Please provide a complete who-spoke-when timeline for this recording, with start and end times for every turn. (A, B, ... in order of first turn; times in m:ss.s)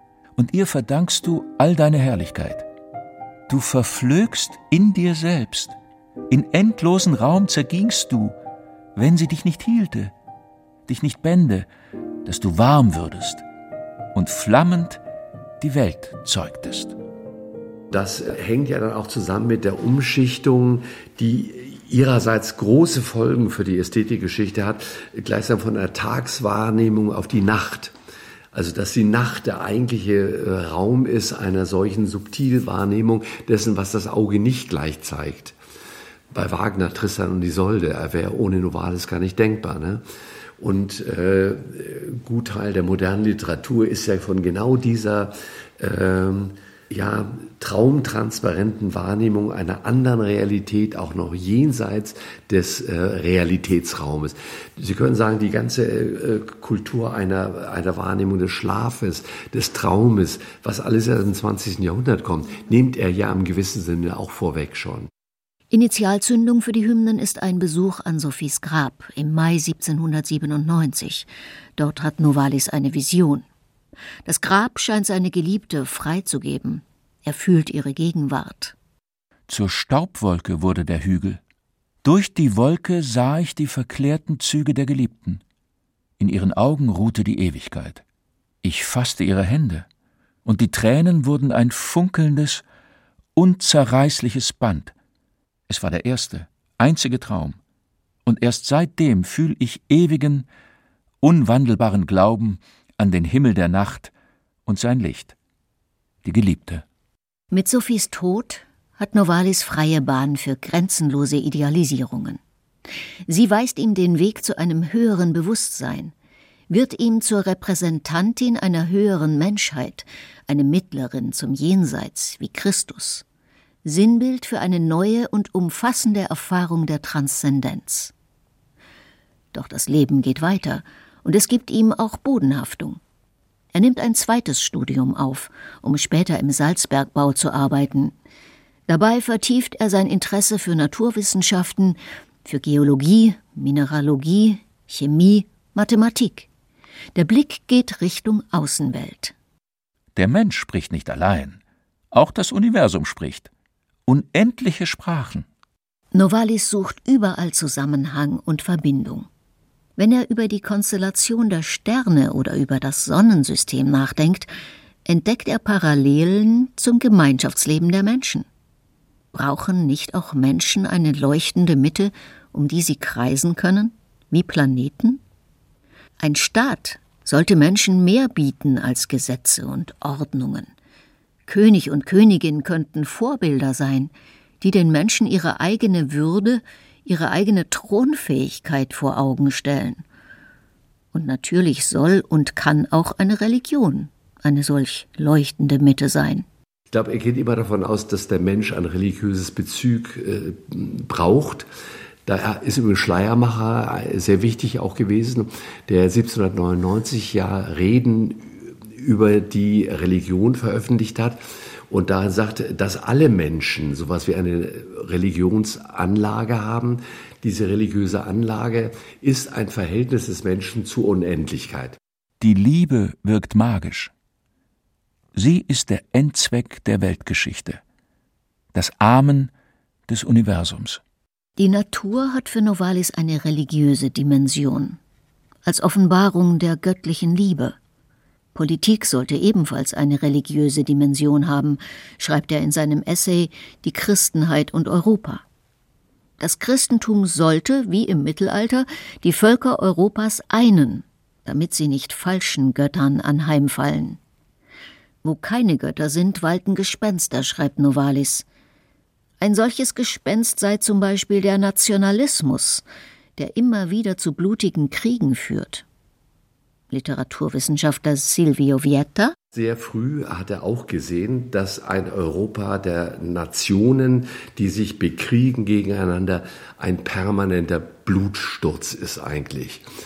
0:00.4-0:02.6 A
0:03.5-0:05.7 A
0:06.3-0:08.3 A
0:09.0-0:10.1 A
0:10.9-0:11.7 A
0:12.2-0:13.4 A
0:14.1-0:15.0 A
0:15.6-0:16.9 A
0:17.9-0:27.9 B
0:28.5-0:35.6 B
0:36.3-0:40.0 B
0:40.6-1:05.1 B
1:05.7-1:13.4 C
1:14.2-1:18.7 C
1:19.5-1:21.4 A
1:22.0-1:25.4 A
1:26.2-1:28.0 A
1:28.6-1:29.9 A
1:30.4-1:32.6 A
1:33.4-1:34.9 A
1:35.7-1:37.6 A
1:38.2-1:40.5 A
1:41.2-1:44.1 A
1:44.6-1:45.3 A
1:46.2-1:46.8 A
1:47.5-1:52.4 C
1:53.3-1:56.1 C
1:56.7-2:03.2 C
2:03.8-2:08.1 C
2:09.5-2:13.0 C
2:13.7-2:18.1 C
2:18.9-2:26.5 C
2:27.1-2:29.3 C
2:30.2-2:31.6 A
2:32.1-2:33.5 A
2:34.1-2:35.4 A
2:36.1-2:39.3 C
2:40.0-2:44.5 C
2:45.0-2:48.4 C
2:49.3-2:55.2 C
2:56.2-3:00.7 C
3:01.5-3:10.0 C
3:11.1-3:16.4 C
3:16.9-3:21.7 B
3:22.2-3:31.4 B
3:31.9-3:42.0 B
3:42.4-3:44.1 A
3:45.3-3:47.8 A
3:48.7-3:49.5 A
3:50.1-3:51.0 A
3:51.6-3:55.0 C
3:55.6-3:57.8 C
3:58.5-4:05.4 C
4:06.4-4:14.2 C
4:15.2-4:18.4 C
4:19.4-4:22.8 C
4:23.4-4:25.8 C
4:26.9-4:29.3 C
4:29.5-4:39.8 B